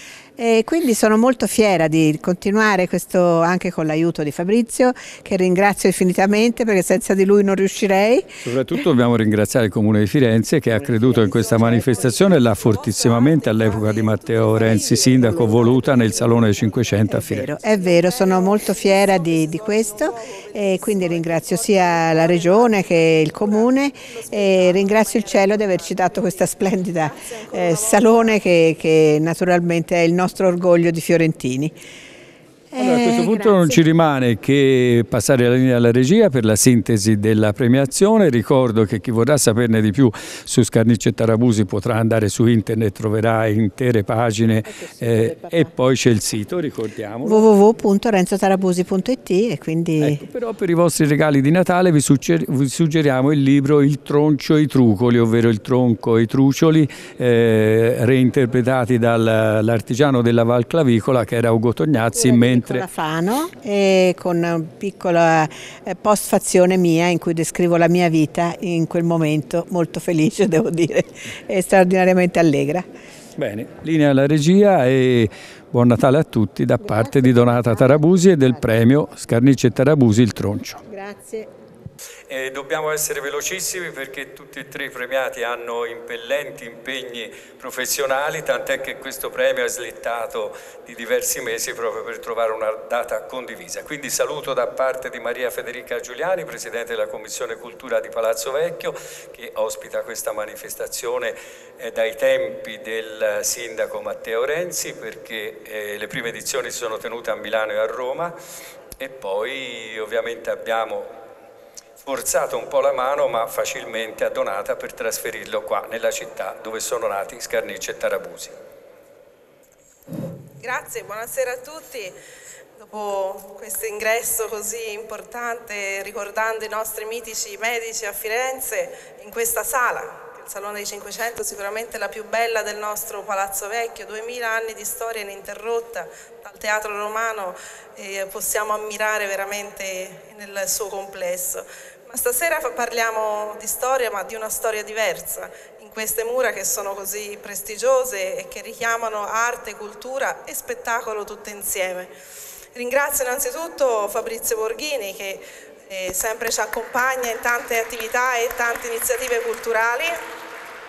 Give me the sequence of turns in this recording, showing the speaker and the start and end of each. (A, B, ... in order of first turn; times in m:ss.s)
0:00.4-0:08.3 A
0:08.4-0:17.5 B
0:14.6-0:15.8 A
0:17.0-0:31.8 A
0:32.7-0:33.8 A
0:32.8-0:47.4 B
0:44.6-0:45.7 A
0:47.2-0:50.2 A
0:50.0-1:02.8 B
1:02.1-1:12.8 A
1:13.4-1:20.8 B
1:16.8-1:18.6 A
1:20.9-1:21.5 A
1:22.3-1:48.4 B
1:49.0-1:51.1 B
1:52.0-1:58.5 B
2:00.6-2:02.2 C
2:02.8-2:32.1 C
2:32.8-2:40.2 C